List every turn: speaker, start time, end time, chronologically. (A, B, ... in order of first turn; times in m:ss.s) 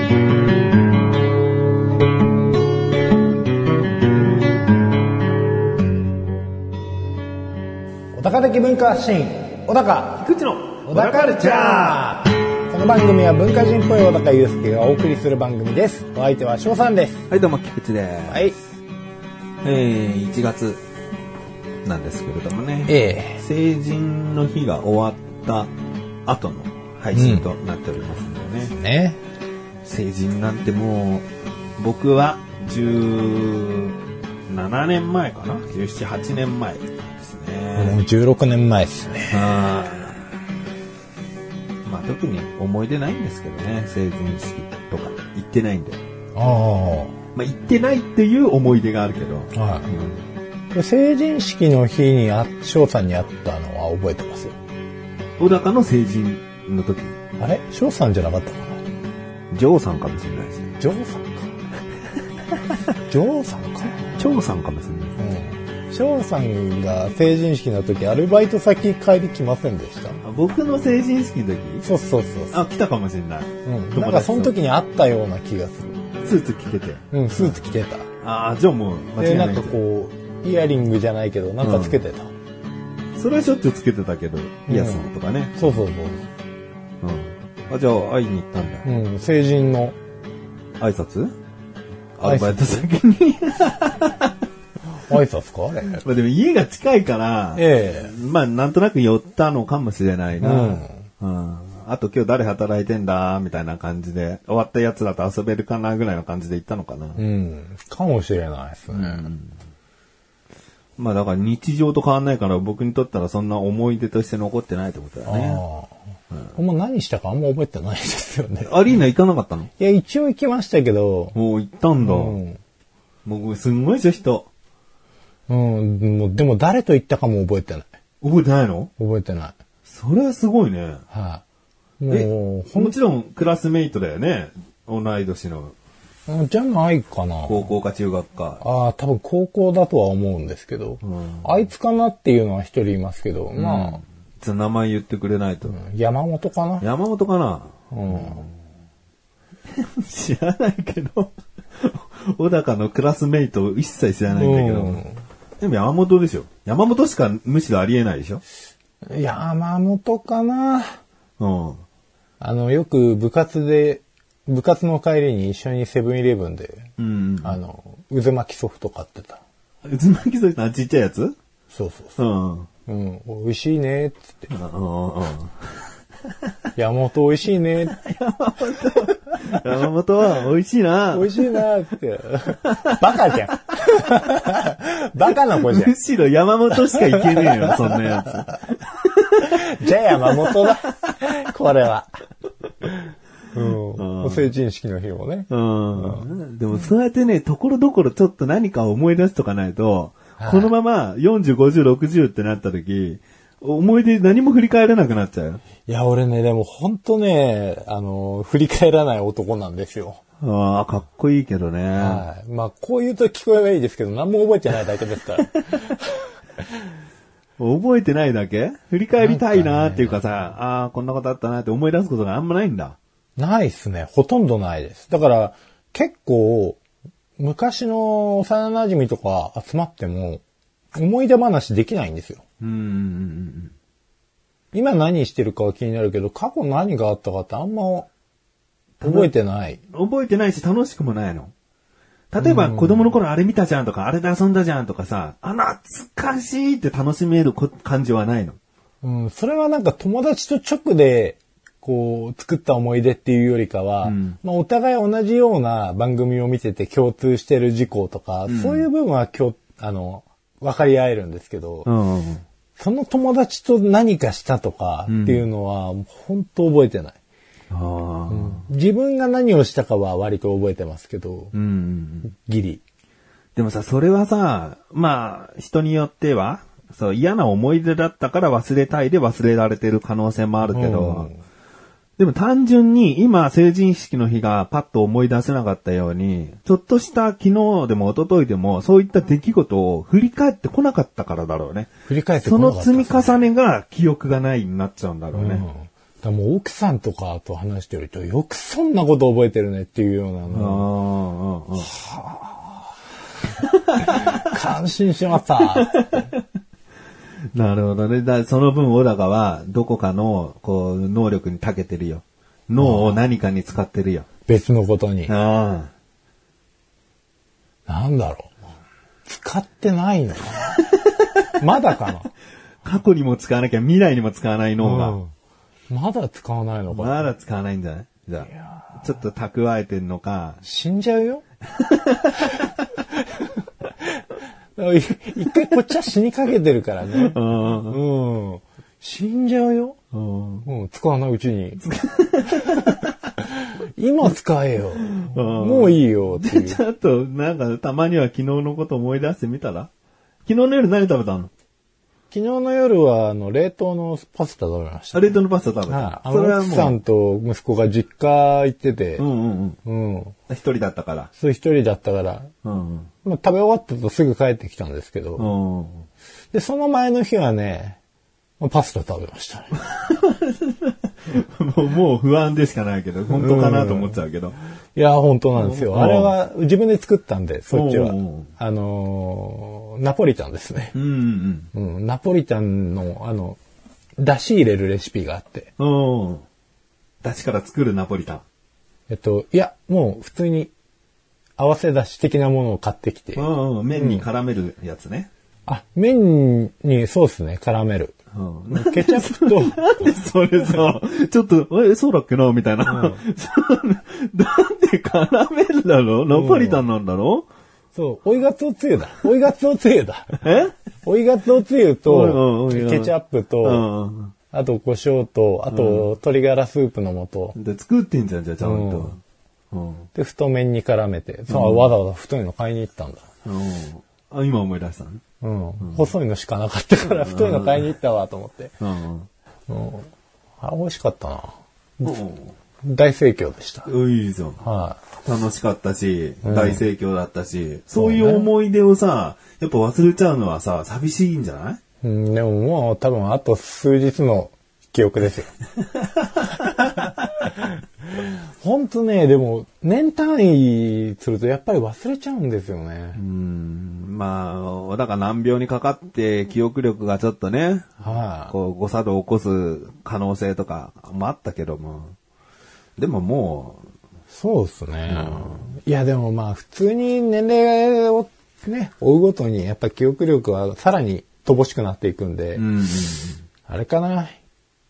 0:08.1-0:10.3 A
0:10.2-0:12.1 B
0:10.8-0:17.3 A
0:17.3-0:18.5 B
0:18.3-0:18.6 A
0:19.6-0:20.8 B
0:21.8-0:25.7 B
0:22.9-0:23.4 A
0:26.2-0:28.7 B
0:27.1-0:27.5 A
0:28.7-0:29.2 A
0:29.8-0:31.2 B
0:31.8-0:34.0 B
0:34.5-0:38.0 B
0:37.8-0:39.4 A
0:39.3-0:40.3 B
0:41.8-0:46.0 B
0:46.3-0:47.2 A
0:47.3-0:50.2 B
0:49.5-0:49.9 A
0:50.7-0:54.6 A
0:55.4-0:57.2 B
0:57.4-0:58.8 A
0:59.5-1:00.7 B
1:00.8-1:01.5 A
1:03.1-1:04.2 A
1:04.2-1:05.2 B
1:05.2-1:10.2 A
1:10.2-1:11.8 B
1:11.8-1:12.6 A
1:12.5-1:14.5 B
1:13.6-1:15.9 A
1:16.2-1:17.6 B
1:17.1-1:18.1 A
1:18.2-1:19.8 B
1:19.2-1:22.3 A
1:21.6-1:22.0 B
1:23.1-1:25.5 B
1:24.7-1:26.3 A
1:27.0-1:28.8 B
1:28.8-1:30.0 A
1:30.8-1:31.3 B
1:32.2-1:34.3 B
1:32.2-1:32.8 A
1:35.0-1:36.0 A
1:36.0-1:47.2 B
1:37.6-1:38.1 A
1:40.4-1:41.1 A
1:47.2-1:49.3 A
1:48.9-1:49.5 B
1:51.0-1:55.6 B
1:55.2-1:55.9 A
1:56.5-1:58.7 A
1:58.6-1:59.7 B
1:59.8-2:01.4 A
2:01.3-2:02.4 B
2:02.0-2:02.6 A
2:03.2-2:04.5 B
2:05.5-2:07.9 A
2:08.2-2:08.9 B
2:09.0-2:09.6 A
2:09.8-2:11.0 B
2:11.1-2:11.4 A
2:12.0-2:13.0 A
2:12.1-2:15.7 B
2:16.3-2:17.7 A
2:17.5-2:18.6 B
2:18.6-2:24.0 A
2:21.0-2:21.5 B
2:23.5-2:25.7 B
2:25.7-2:26.8 A
2:26.8-2:28.5 B
2:27.9-2:28.4 A
2:29.7-2:35.0 B
2:34.3-2:35.2 A
2:35.6-2:38.4 B
2:39.0-2:41.0 A
2:41.4-2:41.8 B
2:42.4-2:46.9 A
2:47.0-2:47.6 B
2:47.4-2:49.4 A
2:49.8-2:51.4 B
2:51.7-2:52.2 A
2:52.2-2:52.7 B
2:52.9-2:54.5 A
2:54.5-2:55.6 B
2:56.8-2:58.0 A
2:57.9-3:01.4 B
3:01.1-3:05.9 A
3:02.7-3:03.2 B
3:05.5-3:09.6 B
3:06.9-3:08.3 A
3:09.4-3:12.1 A
3:10.2-3:10.7 B
3:13.0-3:16.3 A
3:13.9-3:14.5 B
3:15.5-3:25.6 B
3:20.4-3:20.7 A
3:25.8-3:30.2 A
3:30.4-3:32.2 B
3:32.0-3:36.2 A
3:37.6-3:43.0 B
3:39.2-3:40.2 A
3:43.4-3:46.8 A
3:47.4-3:50.4 A
3:50.9-3:52.4 A
3:52.6-3:53.7 B
3:54.7-3:58.1 A
3:59.0-3:59.3 B
3:59.0-3:59.8 A
3:59.9-4:01.5 B
4:02.3-4:08.6 B
4:02.4-4:03.1 A
4:09.0-4:21.9 A
4:14.0-4:14.4 B
4:18.5-4:18.8 B
4:21.8-4:22.4 B
4:22.8-4:27.2 A
4:25.1-4:25.4 B
4:27.7-4:28.6 B
4:28.3-4:31.5 A
4:31.5-4:32.3 B
4:32.2-4:32.8 A
4:33.6-4:41.3 B
4:40.7-4:41.4 A
4:42.2-4:51.9 B
4:52.1-4:53.3 A
4:52.4-4:55.6 B
4:55.3-5:00.9 A
5:00.5-5:01.9 B
5:01.8-5:02.9 A
5:03.9-5:04.5 B
5:04.0-5:06.3 A
5:05.7-5:06.4 B
5:07.5-5:14.3 B
5:12.8-5:13.2 A
5:14.5-5:15.3 A
5:15.3-5:15.9 B
5:17.9-5:18.5 A
5:19.3-5:20.8 A
5:21.6-5:22.3 A
5:22.8-5:25.2 B
5:24.8-5:25.3 A
5:25.9-5:27.3 A
5:26.9-5:30.6 B
5:28.5-5:29.0 A
5:30.6-5:31.4 A
5:31.7-5:32.5 B
5:34.8-5:37.4 A
5:37.2-5:38.0 B
5:37.9-5:40.0 A
5:40.1-5:40.6 B
5:40.6-5:41.8 A
5:41.8-5:43.1 B
5:42.5-5:46.8 A
5:45.2-5:49.9 B
5:50.4-5:51.5 B
5:52.3-5:55.4 A
5:55.1-5:57.0 B
5:55.9-5:59.2 A
5:59.2-5:59.8 B
5:59.8-6:00.4 A
6:00.5-6:01.3 B
6:01.4-6:02.5 A
6:02.6-6:03.1 B
6:03.2-6:05.5 A
6:05.4-6:06.0 B
6:06.5-6:08.0 A
6:08.6-6:09.7 A
6:09.8-6:14.6 B
6:13.4-6:14.2 A
6:14.9-6:21.0 A
6:15.6-6:16.3 B
6:17.7-6:18.5 B
6:20.9-6:21.7 B
6:21.7-6:23.6 A
6:24.2-6:25.7 A
6:25.8-6:26.4 B
6:27.2-6:28.4 B
6:29.1-6:30.7 A
6:31.6-6:34.2 A
6:33.4-6:35.3 B
6:35.7-6:38.2 A
6:38.3-6:47.5 B
6:38.7-6:39.9 A
6:42.8-6:43.2 A
6:46.3-6:46.8 A
6:47.9-6:50.4 A
6:50.4-6:50.7 B
6:51.0-6:53.8 A
6:52.0-6:53.1 B
6:53.6-6:54.3 B
6:54.5-6:57.6 A
6:55.7-6:56.1 B
6:57.5-6:59.2 B
6:58.6-6:59.2 A
6:59.7-7:00.1 B
7:00.1-7:03.2 A
7:01.5-7:01.9 B
7:03.4-7:05.2 B
7:05.4-7:08.7 A
7:05.8-7:06.1 B
7:07.0-7:07.9 B
7:08.8-7:09.3 B
7:09.7-7:12.1 A
7:12.0-7:12.5 B
7:12.8-7:13.9 A
7:13.8-7:14.6 B
7:14.6-7:15.0 A
7:15.2-7:21.8 B
7:16.4-7:16.8 A
7:18.0-7:18.5 A
7:22.0-7:25.5 A
7:26.6-7:27.6 A
7:28.1-7:33.2 A
7:33.2-7:42.1 B
7:38.0-7:38.5 A
7:43.0-7:43.8 B
7:44.3-7:52.6 A
7:45.1-7:45.6 B
7:52.6-7:53.4 B
7:53.7-7:54.4 A